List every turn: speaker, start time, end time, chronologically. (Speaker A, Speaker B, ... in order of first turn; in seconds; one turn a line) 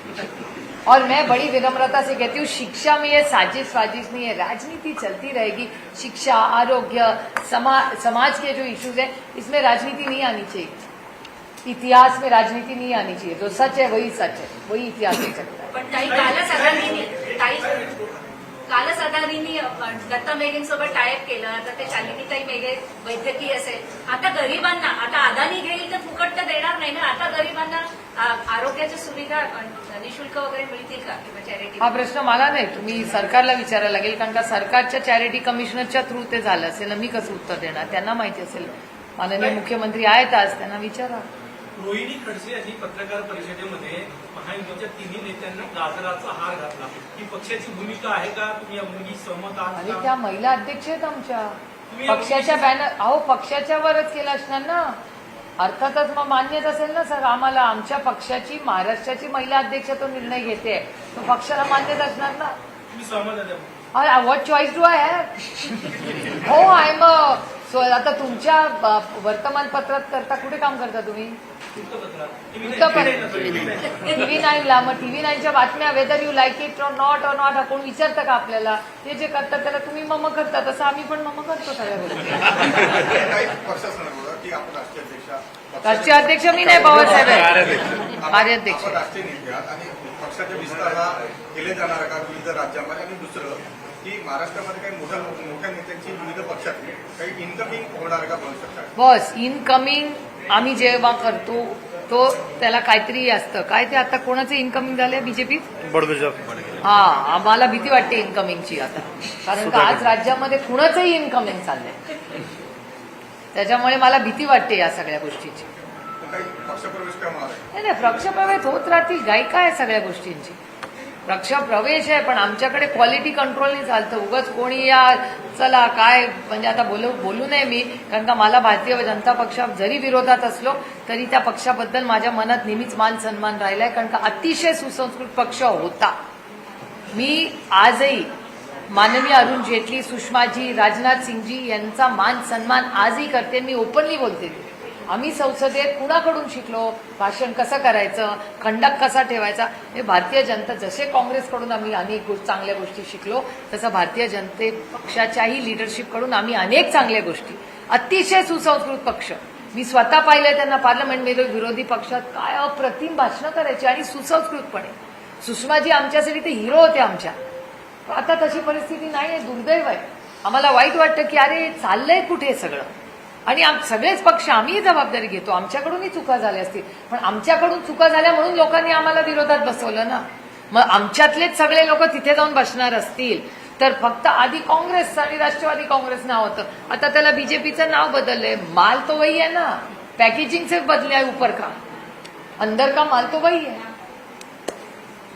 Speaker A: 0.9-10.8
Speaker A: 11.6-15.7
Speaker B: 15.7-17.8
Speaker C: 15.8-18.1
Speaker B: 18.7-32.0
Speaker A: 31.8-41.2
Speaker C: 41.8-50.1
Speaker A: 49.7-55.0
Speaker C: 51.9-52.6
Speaker A: 55.6-62.5
Speaker C: 62.9-63.8
Speaker A: 63.9-71.4
Speaker C: 71.7-74.2
Speaker A: 72.6-82.9
Speaker D: 82.6-98.9
Speaker A: 85.8-89.0
Speaker E: 87.2-87.8
Speaker A: 99.0-105.7
Speaker E: 105.8-106.7
Speaker A: 106.8-112.0
Speaker E: 109.5-110.1
Speaker A: 113.5-115.7
Speaker D: 116.2-117.7
Speaker A: 117.7-120.6
Speaker A: 121.3-136.1
Speaker A: 137.1-138.3
Speaker A: 138.9-167.3
Speaker A: 168.1-172.9
Speaker A: 173.5-191.8
Speaker A: 192.6-193.8